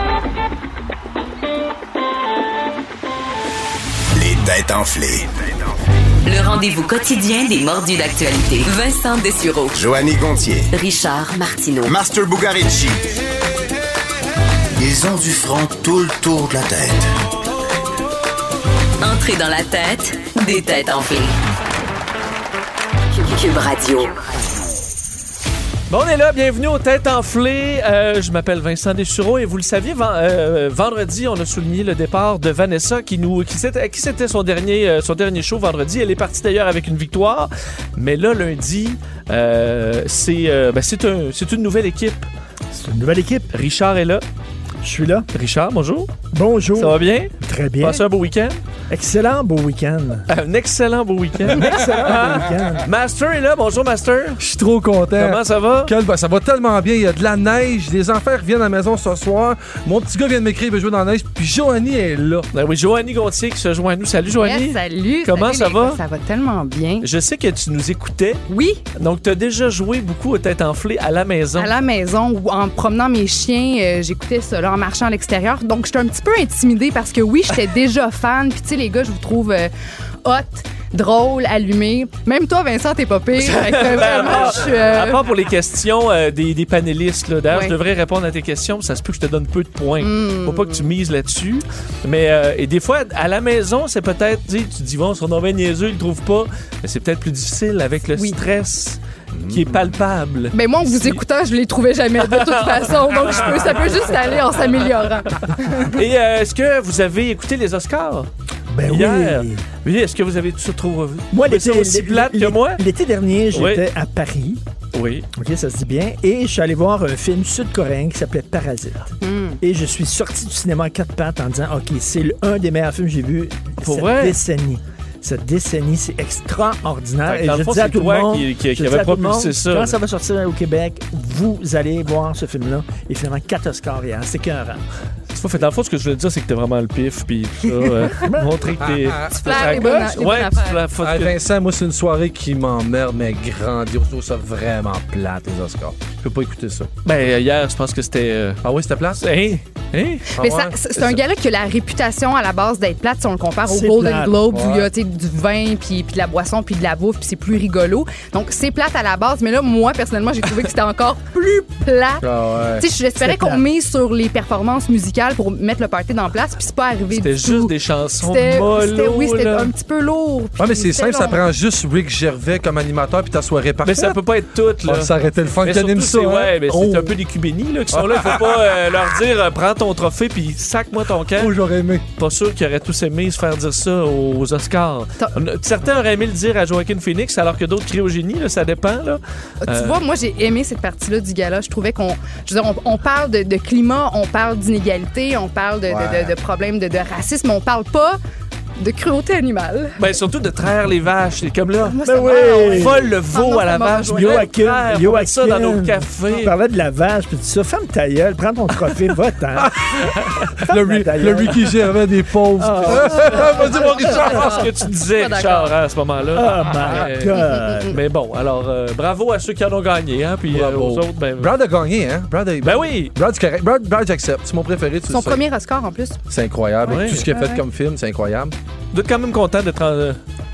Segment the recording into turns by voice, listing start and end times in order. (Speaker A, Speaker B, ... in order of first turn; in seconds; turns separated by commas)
Speaker A: 4.1-5.4, Speaker B: 6.2-9.8, Speaker A: 9.7-10.7, Speaker B: 10.7-11.9, Speaker A: 11.8-13.1, Speaker A: 14.8-17.1, Speaker B: 19.0-21.3, Speaker B: 23.1-24.1, Speaker C: 25.9-42.3, Speaker D: 42.7-43.5, Speaker C: 43.5-44.2, Speaker D: 44.8-45.3, Speaker C: 45.3-46.1, Speaker D: 46.3-48.0, Speaker C: 46.7-48.6, Speaker D: 48.9-50.3, Speaker C: 50.3-54.4, Speaker D: 51.4-52.9, Speaker E: 54.4-62.5, Speaker C: 55.1-55.9, Speaker C: 62.5-66.0, Speaker F: 64.3-67.1, Speaker C: 67.0-68.4, Speaker F: 68.5-68.8, Speaker C: 68.9-71.7, Speaker F: 71.5-79.7, Speaker F: 80.2-85.2, Speaker C: 83.4-101.2, Speaker F: 87.5-87.7, Speaker F: 90.0-90.9, Speaker E: 99.3-100.0, Speaker F: 100.5-106.0, Speaker C: 102.2-104.4, Speaker C: 105.7-108.3, Speaker D: 108.7-109.6, Speaker C: 108.9-112.8, Speaker D: 111.3-114.6, Speaker C: 113.5-113.8, Speaker C: 114.9-115.3, Speaker D: 115.3-134.8, Speaker F: 119.2-119.6, Speaker C: 123.8-124.4, Speaker C: 127.2-130.0, Speaker C: 135.3-141.3, Speaker D: 138.1-138.8, Speaker E: 138.8-139.8, Speaker F: 139.3-140.8, Speaker E: 141.0-146.9, Speaker C: 147.0-148.6, Speaker E: 148.6-149.2, Speaker C: 149.2-150.3, Speaker E: 150.3-150.7, Speaker F: 150.4-171.4, Speaker D: 153.7-154.4, Speaker E: 154.5-154.9, Speaker E: 162.2-162.8, Speaker D: 163.2-163.6, Speaker C: 167.1-169.7, Speaker E: 170.6-174.2, Speaker C: 173.8-175.1, Speaker E: 174.8-177.1, Speaker C: 175.6-181.5, Speaker E: 177.9-178.6, Speaker E: 181.3-182.0, Speaker C: 182.1-190.0, Speaker F: 189.6-198.2, Speaker E: 195.9-196.3, Speaker F: 198.8-200.0, Speaker C: 200.0-206.5, Speaker F: 201.8-204.5, Speaker D: 202.0-203.0, Speaker D: 204.1-209.8, Speaker E: 209.6-210.0, Speaker C: 210.1-210.5, Speaker D: 210.6-211.9, Speaker E: 210.6-214.1, Speaker D: 212.6-213.5, Speaker F: 212.9-215.7, Speaker C: 213.3-221.5, Speaker D: 216.3-218.0, Speaker F: 217.3-217.9, Speaker E: 220.5-225.4, Speaker C: 222.6-223.1, Speaker F: 225.1-226.2, Speaker E: 226.3-228.5, Speaker F: 226.8-227.6, Speaker C: 226.9-227.3, Speaker C: 228.9-230.2